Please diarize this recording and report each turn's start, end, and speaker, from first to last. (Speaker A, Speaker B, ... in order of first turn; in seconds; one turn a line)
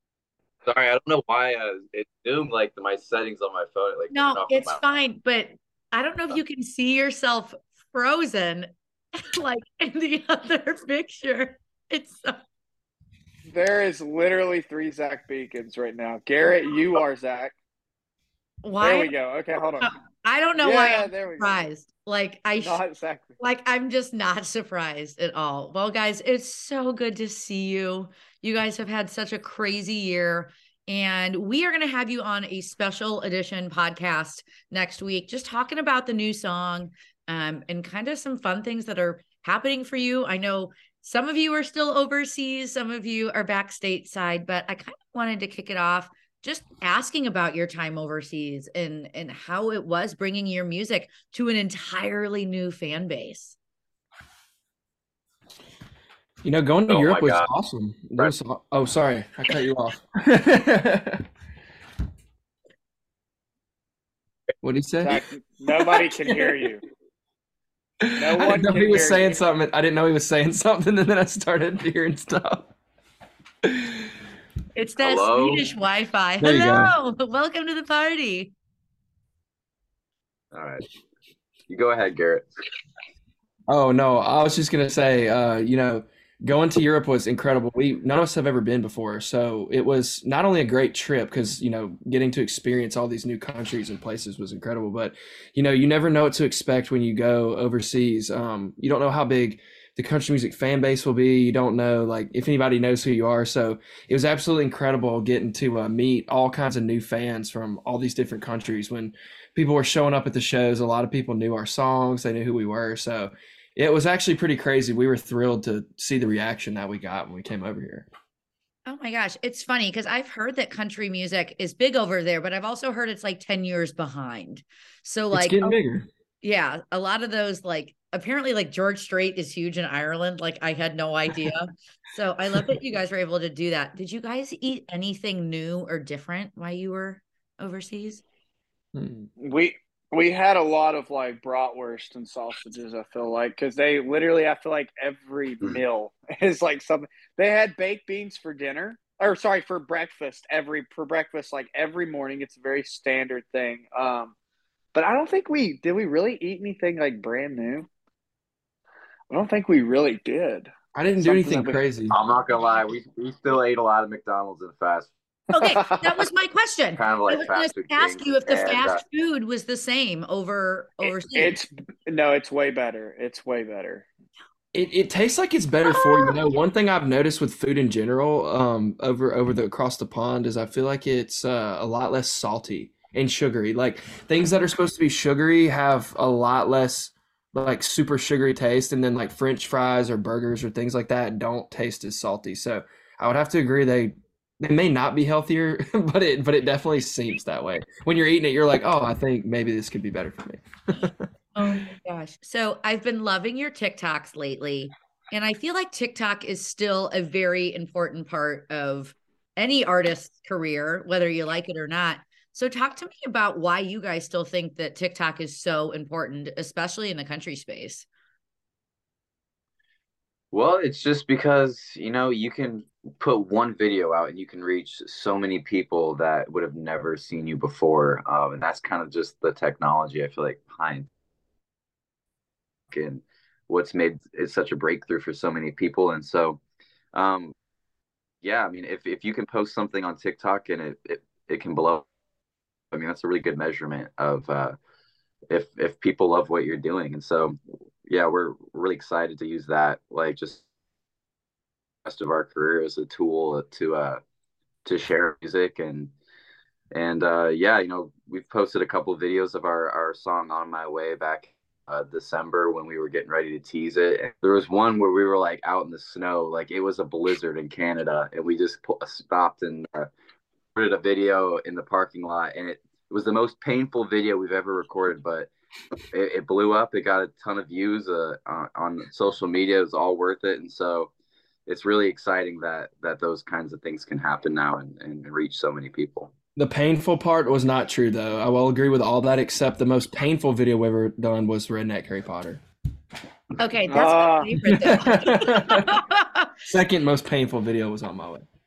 Speaker A: 0.7-4.8
Speaker B: 4.1-12.4
Speaker C: 13.5-17.6
Speaker B: 18.6-19.1
Speaker C: 18.8-19.9
Speaker B: 19.8-22.8
Speaker C: 20.6-21.6
Speaker C: 22.6-23.3
Speaker B: 23.4-53.6
Speaker D: 56.4-61.3
Speaker A: 56.9-57.5
Speaker D: 64.6-66.7
Speaker C: 65.0-66.8
Speaker D: 68.0-72.7
Speaker C: 68.2-69.4
Speaker D: 73.6-74.1
Speaker B: 74.8-78.5
Speaker A: 75.0-75.7
Speaker D: 76.4-76.9
Speaker A: 80.5-80.9
Speaker A: 81.7-82.5
Speaker D: 83.7-118.1
Speaker B: 118.9-125.8
Speaker D: 125.3-126.1
Speaker B: 126.4-138.2
Speaker D: 138.9-139.3
Speaker C: 139.4-154.3
Speaker C: 154.9-157.9
Speaker C: 159.3-161.8
Speaker D: 160.9-162.2
Speaker A: 162.1-165.1
Speaker B: 165.5-171.6
Speaker A: 167.0-169.0
Speaker C: 171.3-174.1
Speaker D: 174.7-201.2
Speaker B: 201.6-218.1
Speaker A: 220.5-231.1
Speaker A: 232.9-236.6
Speaker A: 237.1-237.5
Speaker A: 238.4-242.1
Speaker A: 242.9-244.8
Speaker A: 245.5-250.6
Speaker A: 252.1-254.2
Speaker A: 254.8-256.1
Speaker A: 256.9-270.1
Speaker A: 270.8-275.5
Speaker A: 276.1-281.1
Speaker A: 281.7-286.3
Speaker D: 286.6-292.6
Speaker B: 293.6-296.5
Speaker C: 293.9-294.5
Speaker D: 294.6-296.0
Speaker D: 296.7-298.5